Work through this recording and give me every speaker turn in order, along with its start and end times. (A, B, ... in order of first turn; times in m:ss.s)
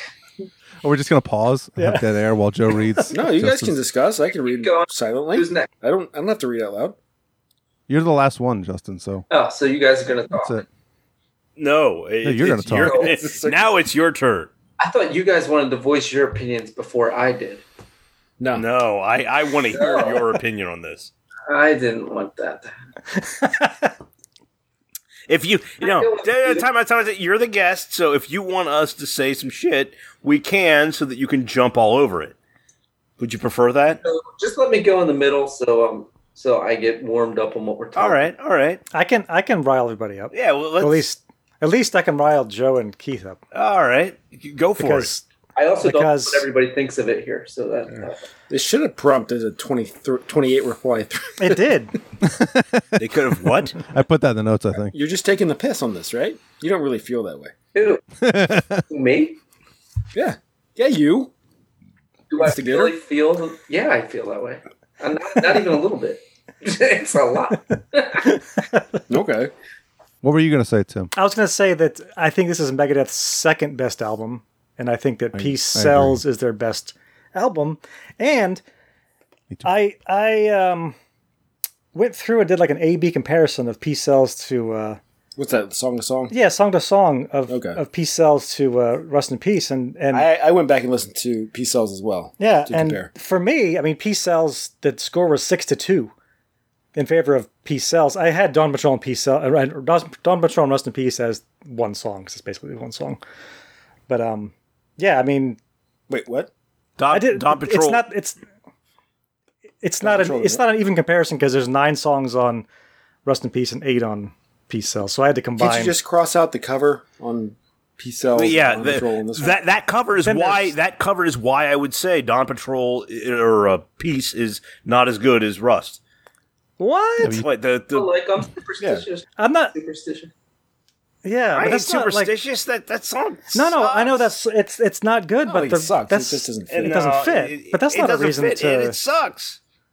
0:00.8-0:03.8 A
0:01.8-0:02.0 B
0:03.1-0:07.0 C
0:04.6-0:05.7 D
0:07.9-0:09.2 A
0:09.3-0:10.6 D
0:10.3-0:10.6 A
0:11.6-0:14.5 E
0:12.2-0:13.1 A
0:13.0-0:13.6 C
0:14.8-0:17.6 D
0:18.4-0:18.6 C
0:18.5-0:21.1 E
0:19.7-0:20.2 D
0:21.5-0:22.7 D
0:23.2-0:23.9 B
0:25.3-0:32.3 E
0:25.8-0:26.6 D
0:33.2-0:34.0 E
0:34.0-0:38.2 D
0:38.0-0:38.8 E
0:38.9-0:43.4 B
0:40.3-0:41.1 E
0:43.5-0:45.1 E
0:44.8-0:45.2 B
0:45.6-0:48.2 D
0:45.8-0:46.5 B
0:48.5-0:51.7 C
0:51.4-0:51.9 B
0:53.0-0:53.8 E
0:53.9-0:54.9 A
0:54.9-0:57.5 C
0:57.7-0:58.0 D
0:58.2-0:58.8 A
0:58.9-0:59.4 D
1:00.1-1:01.3 C
1:02.3-1:08.3 D
1:02.4-1:02.9 C
1:09.1-1:09.5 C
1:10.2-1:11.1 A
1:11.1-1:18.6 B
1:15.3-1:16.2 A
1:19.6-1:21.0 B
1:21.9-1:25.0 B
1:25.4-1:26.3 C
1:26.3-1:30.3 B
1:27.5-1:27.8 C
1:30.1-1:33.1 C
1:32.4-1:36.1 B
1:36.9-1:43.2 B
1:44.1-1:45.6 B
1:46.1-1:46.5 C
1:47.0-1:48.0 E
1:47.1-1:48.4 B
1:49.8-1:52.6 B
1:50.0-1:50.6 C
1:53.2-1:56.0 B
1:55.6-1:59.6 C
1:58.3-2:06.0 E
2:00.2-2:00.8 B
2:06.8-2:07.4 B
2:07.2-2:07.4 A
2:07.4-2:08.1 E
2:07.9-2:10.3 D
2:08.8-2:09.0 C
2:09.4-2:09.7 B
2:11.2-2:12.3 B
2:11.5-2:14.3 E
2:13.5-2:19.0 B
2:15.4-2:17.2 C
2:16.7-2:19.6 E